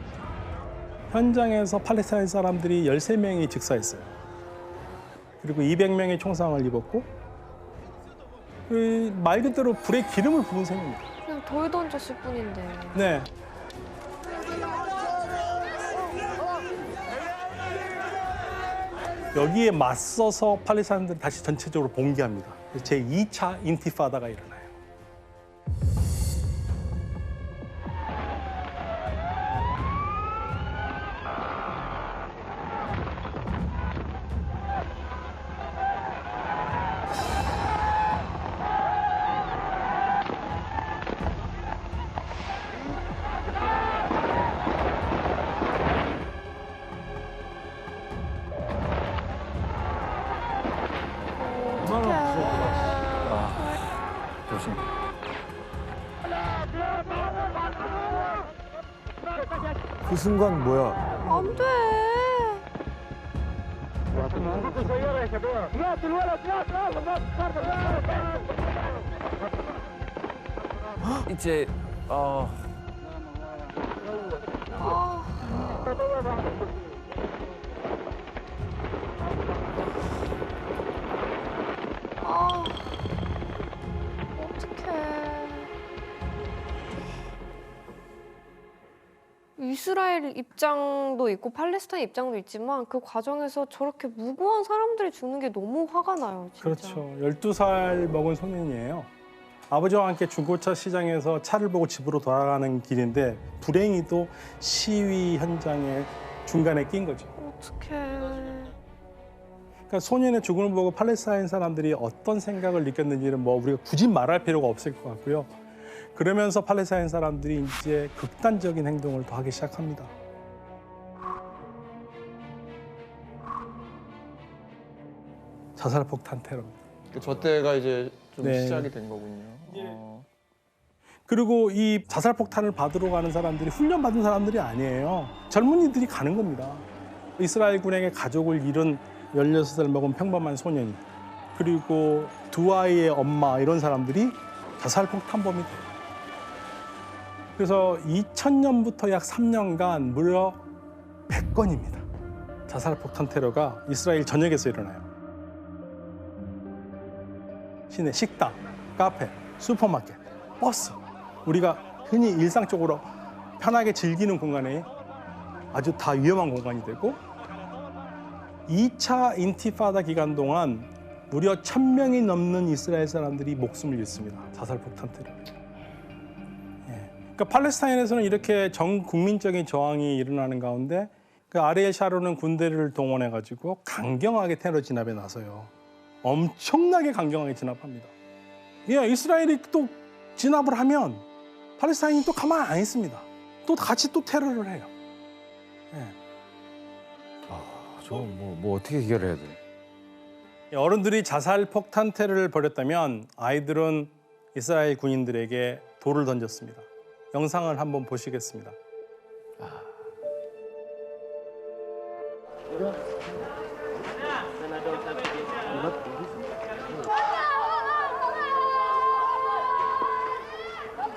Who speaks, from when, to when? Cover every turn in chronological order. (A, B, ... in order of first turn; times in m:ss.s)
0:01.1-0:04.2 A
0:05.4-0:07.1 A
0:08.7-0:11.0 A
0:11.2-0:13.0 B
0:12.9-0:13.3 A
0:19.3-0:24.7 A
0:51.4-0:53.8 B
0:51.8-0:53.6 C
0:54.5-0:54.8 C
1:00.0-1:01.0 C
1:01.2-1:02.6 B
1:11.0-1:12.6 C
1:14.7-1:15.5 B
1:22.2-1:22.9 B
1:24.4-1:25.7 B
1:29.6-1:37.0 B
1:36.6-1:39.1 A
1:39.7-1:47.3 A
1:47.4-1:48.7 B
1:49.9-1:55.6 A
1:56.1-2:00.1 A
2:05.8-2:06.8 A
2:07.1-2:10.2 D
2:08.4-2:08.9 A
2:11.3-2:16.8 A
2:17.4-2:21.0 A
2:21.5-2:25.9 A
2:27.6-2:30.6 A
2:31.3-2:32.0 A
2:32.7-2:35.1 A
2:37.9-2:43.1 A
2:43.6-2:44.9 A
2:45.7-2:47.2 A
2:48.7-2:55.5 A
2:56.9-3:05.7 A
3:06.2-3:08.1 A
3:08.8-3:11.2 A
3:11.8-3:14.9 A
3:17.5-3:19.6 C
3:20.7-3:28.8 A